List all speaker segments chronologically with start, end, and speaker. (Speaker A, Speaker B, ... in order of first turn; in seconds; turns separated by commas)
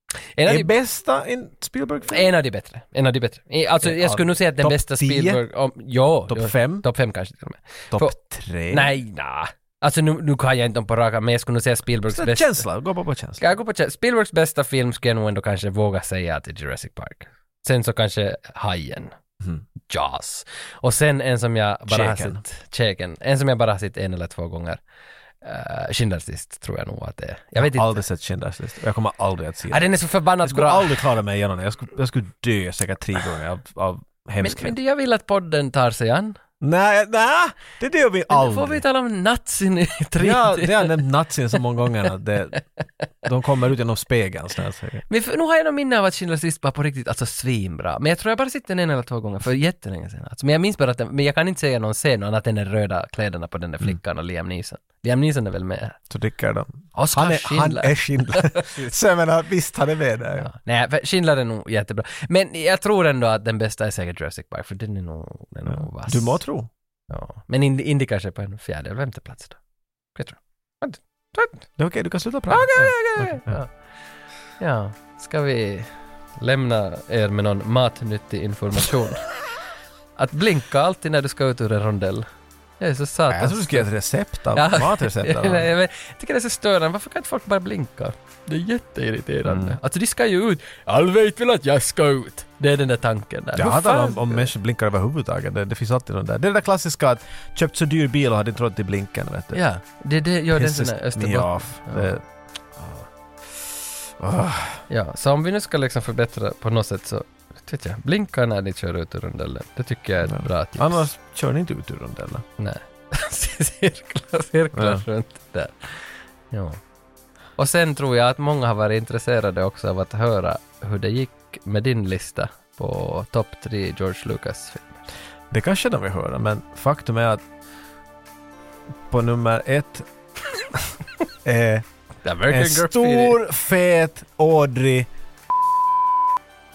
Speaker A: 0.4-0.7, Speaker B: 0.5-2.3, Speaker A: 2.1-8.2, Speaker B: 3.8-5.4, Speaker B: 6.3-6.8, Speaker B: 7.9-8.9, Speaker A: 8.7-12.7, Speaker B: 12.1-13.5, Speaker A: 13.4-19.1, Speaker A: 19.9-24.8, Speaker B: 21.9-22.4, Speaker A: 25.4-28.0, Speaker B: 27.6-29.9, Speaker A: 29.7-31.0, Speaker B: 30.4-34.7, Speaker A: 34.4-36.4, Speaker B: 36.6-38.8, Speaker A: 38.3-41.0, Speaker B: 40.2-42.6, Speaker B: 43.2-45.0, Speaker A: 45.1-56.0, Speaker B: 56.1-60.5, Speaker A: 57.0-58.9, Speaker A: 60.5-66.4, Speaker B: 65.7-66.7, Speaker A: 67.1-69.6, Speaker A: 70.2-71.7, Speaker B: 71.8-73.6, Speaker A: 72.5-73.8, Speaker A: 74.6-79.3, Speaker A: 80.2-82.3, Speaker A: 82.8-83.9, Speaker B: 83.3-85.7, Speaker A: 84.5-94.5, Speaker B: 89.5-89.8, Speaker B: 93.6-99.6, Speaker A: 99.5-102.1, Speaker B: 100.5-102.2, Speaker A: 102.8-103.1, Speaker B: 104.2-104.8, Speaker A: 104.9-111.0, Speaker B: 110.2-112.4, Speaker A: 112.6-116.8, Speaker B: 114.8-115.0, Speaker A: 117.6-125.1, Speaker B: 125.5-127.4, Speaker B: 129.1-130.1, Speaker B: 131.4-131.8, Speaker A: 132.2-133.4, Speaker B: 132.5-135.1